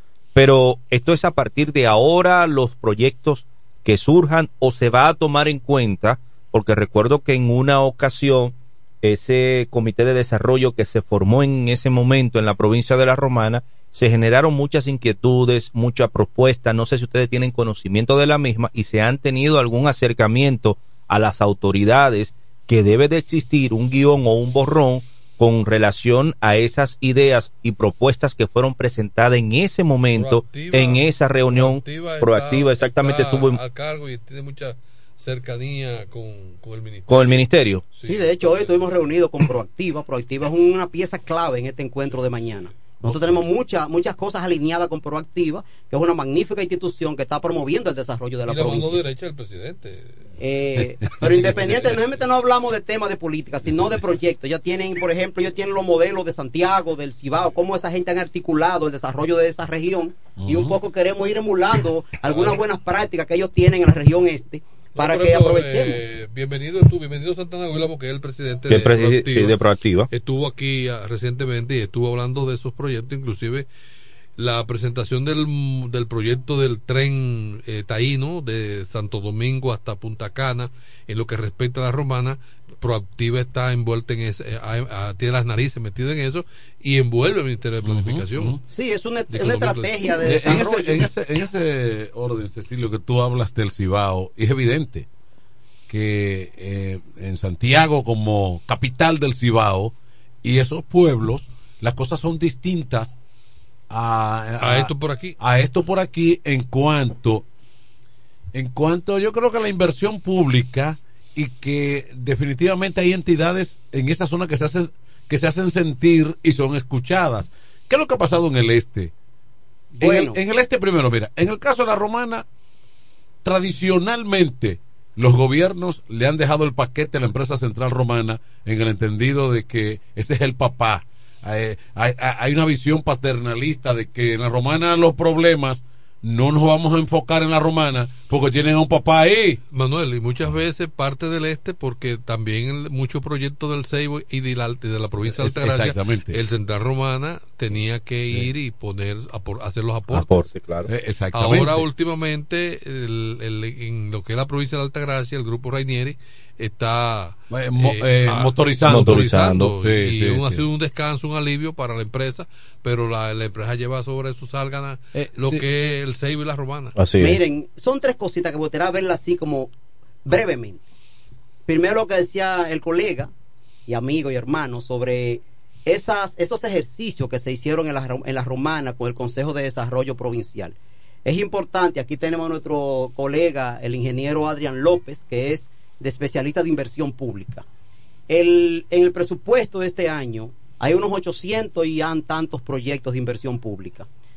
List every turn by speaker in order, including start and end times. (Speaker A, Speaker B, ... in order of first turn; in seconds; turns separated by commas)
Speaker A: 0.3-33.6, Speaker B: 30.1-38.9, Speaker A: 37.1-37.9, Speaker C: 38.0-49.0, Speaker B: 48.5-50.3, Speaker C: 50.4-66.0, Speaker D: 51.0-52.0, Speaker D: 60.4-60.8, Speaker B: 65.0-69.6, Speaker A: 68.7-70.1, Speaker B: 70.1-73.7, Speaker B: 74.4-88.6, Speaker D: 87.8-88.6, Speaker C: 88.7-91.1, Speaker B: 89.3-90.5, Speaker D: 90.2-95.1, Speaker D: 95.9-103.2, Speaker D: 103.9-107.4, Speaker B: 104.6-105.4, Speaker D: 108.5-119.1, Speaker D: 119.9-122.5, Speaker C: 120.0-120.4, Speaker D: 123.5-139.6, Speaker B: 139.7-150.5, Speaker D: 145.3-146.4, Speaker A: 150.1-150.9, Speaker D: 150.9-151.8, Speaker B: 151.3-167.0, Speaker D: 157.5-159.2, Speaker A: 158.9-159.7, Speaker D: 159.8-160.6, Speaker D: 165.2-165.7, Speaker A: 167.0-167.4, Speaker C: 167.2-169.7, Speaker C: 170.3-170.8, Speaker C: 171.7-173.3, Speaker C: 173.9-187.6, Speaker C: 188.3-194.1